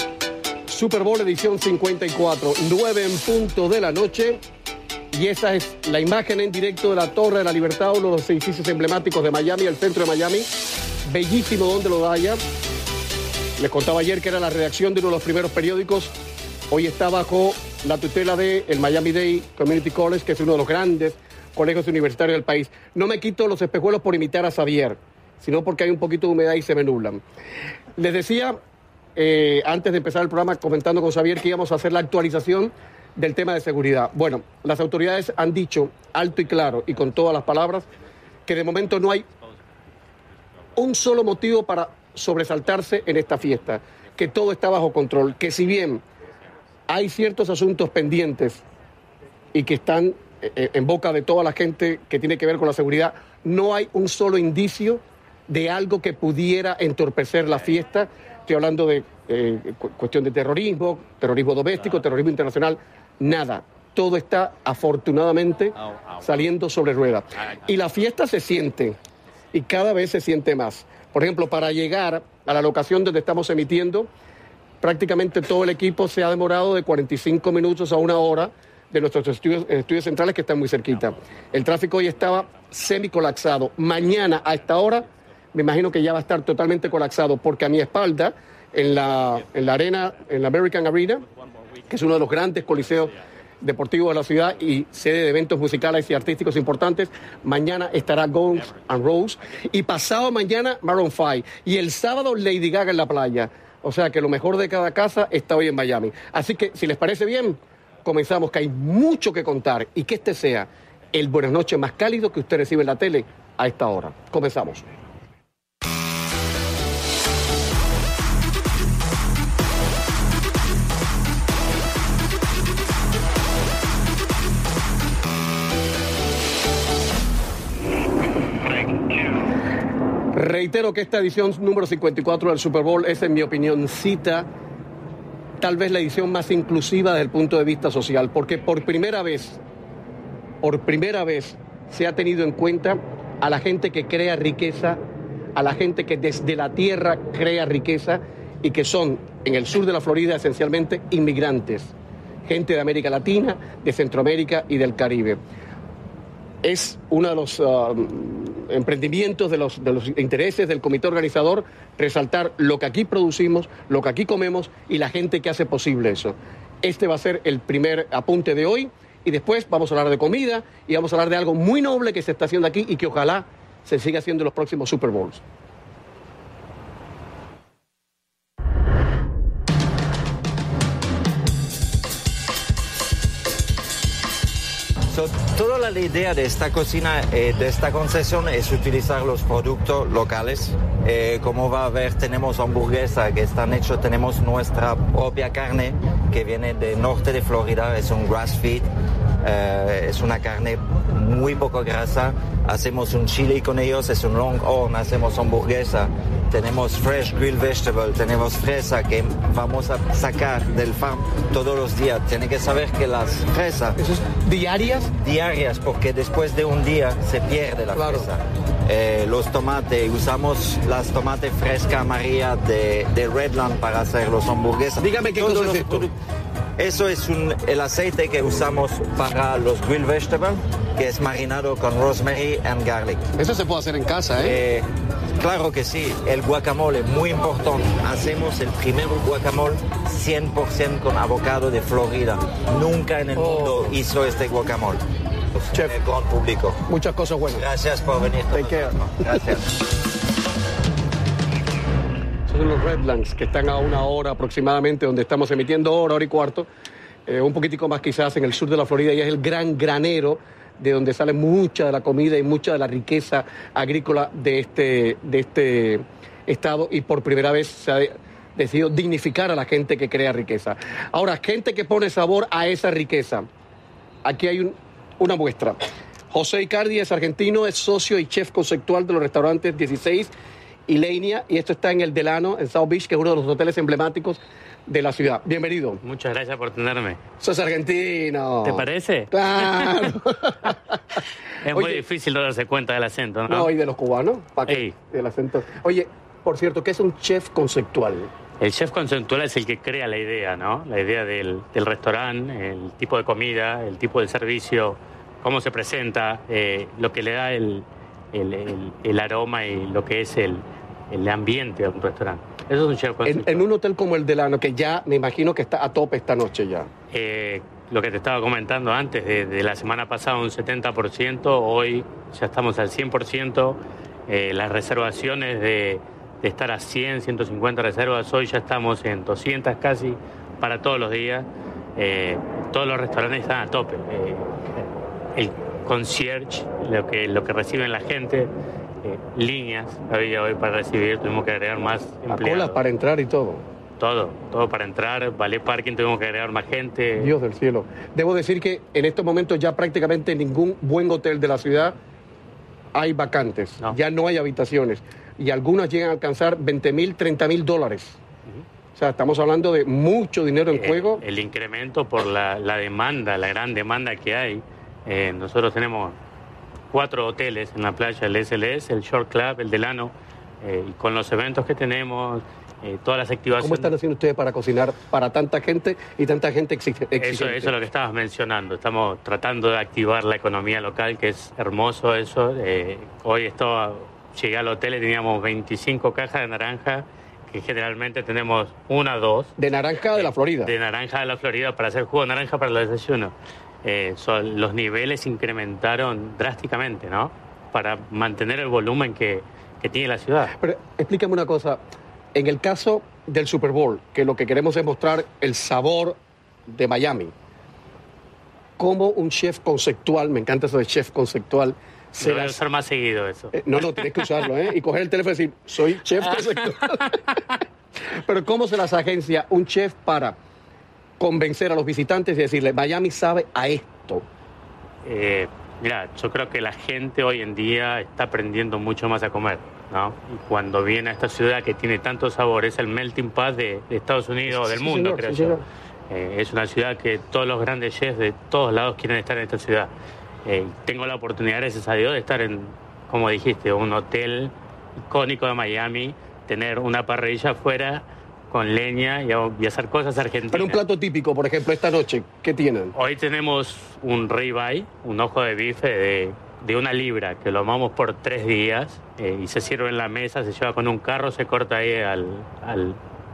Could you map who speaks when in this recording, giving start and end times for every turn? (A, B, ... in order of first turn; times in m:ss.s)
0:00.7-0:04.4 A
0:05.1-0:10.5 A
0:11.0-0:12.4 A
0:13.6-0:16.1 A
0:16.7-0:27.2 A
0:28.0-0:28.6 A
0:29.2-0:37.8 A
0:38.5-0:39.2 A
0:40.8-0:46.0 A
0:46.9-0:48.6 A
0:49.5-1:09.0 A
1:09.5-1:14.1 A
1:14.8-1:31.2 A
1:31.9-1:54.8 A
2:10.3-2:14.5 A
2:15.6-2:19.6 A
2:20.6-2:25.0 A
2:25.5-2:31.9 A
2:32.5-2:35.4 A
2:36.6-2:55.4 A
3:05.1-3:18.9 B
3:19.4-3:34.0 B
3:34.0-3:35.1 A
3:35.2-3:46.1 B
3:37.9-3:38.3 A
3:45.0-3:46.1 A
3:46.8-3:53.2 B
3:53.4-3:54.6 A
3:54.4-4:05.0 B
4:03.3-4:03.9 A
4:05.6-4:06.8 B
4:06.9-4:07.6 A
4:07.5-4:09.7 B
4:08.5-4:09.4 A
4:12.5-4:16.7 A
4:17.3-4:33.5 A
4:34.2-4:35.8 A
4:36.3-4:40.3 A
4:40.9-4:46.0 A
4:46.0-4:47.2 C
4:47.4-4:51.2 A
4:48.6-4:50.1 C
4:51.6-4:53.7 C
4:51.7-4:52.0 A
4:53.5-4:58.3 A
4:54.7-4:54.9 C
4:58.6-5:13.7 C
5:13.2-5:16.9 A
5:17.1-5:38.5 C
5:39.0-5:42.8 C
5:42.3-5:43.6 A
5:44.0-5:47.3 C
5:47.2-5:52.0 A
5:52.9-5:58.2 A
5:59.0-6:01.2 A
6:00.7-6:06.2 C
6:06.9-6:13.9 C
6:13.6-6:17.7 A
6:17.2-6:29.5 C
6:29.6-6:30.7 A
6:30.1-6:33.3 C
6:33.8-6:40.5 C
6:40.5-6:41.8 A
6:42.3-6:46.2 A
6:46.7-6:47.3 A
6:48.8-6:52.6 A
6:52.2-6:54.2 C
6:53.5-6:57.2 A
6:56.4-6:57.4 C
6:58.1-7:00.4 A
7:01.2-7:04.2 A
7:05.0-7:15.6 C
7:14.5-7:15.6 A
7:16.1-7:19.9 C
7:20.4-7:24.5 C
7:25.0-7:30.8 C
7:30.5-7:32.9 A
7:32.9-7:43.0 C